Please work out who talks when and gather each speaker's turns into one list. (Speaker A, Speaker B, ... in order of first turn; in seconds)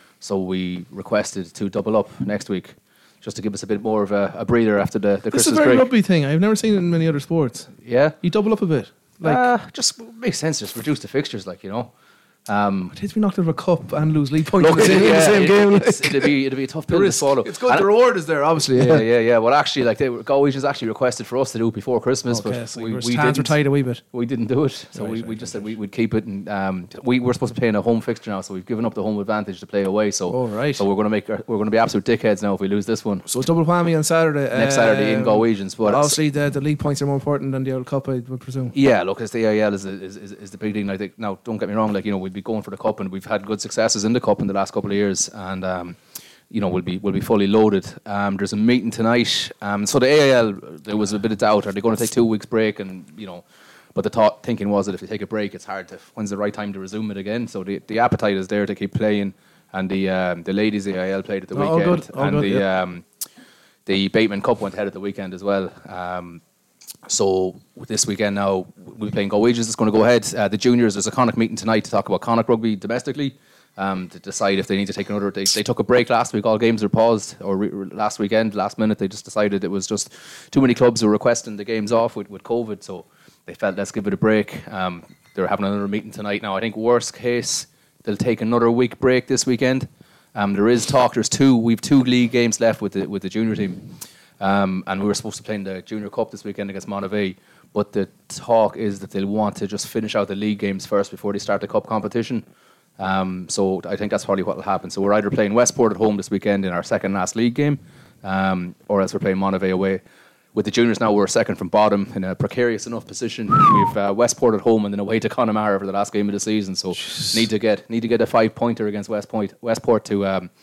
Speaker A: 0.2-5.9, 7.8-8.2, 9.2-11.9, 12.5-12.9, 14.6-17.9, 18.7-23.6, 24.1-33.2, 34.5-36.2, 38.7-46.0, 46.5-53.4, 53.9-63.0, 63.9-66.4, 67.0-93.8, 94.4-102.4, 103.0-110.0, 110.5-120.5
Speaker B: 5.3-7.7, 8.2-9.4, 12.9-16.4, 16.9-19.0, 22.3-24.0, 24.9-25.7, 30.3-30.8, 33.2-38.7, 61.5-62.6, 117.0-117.3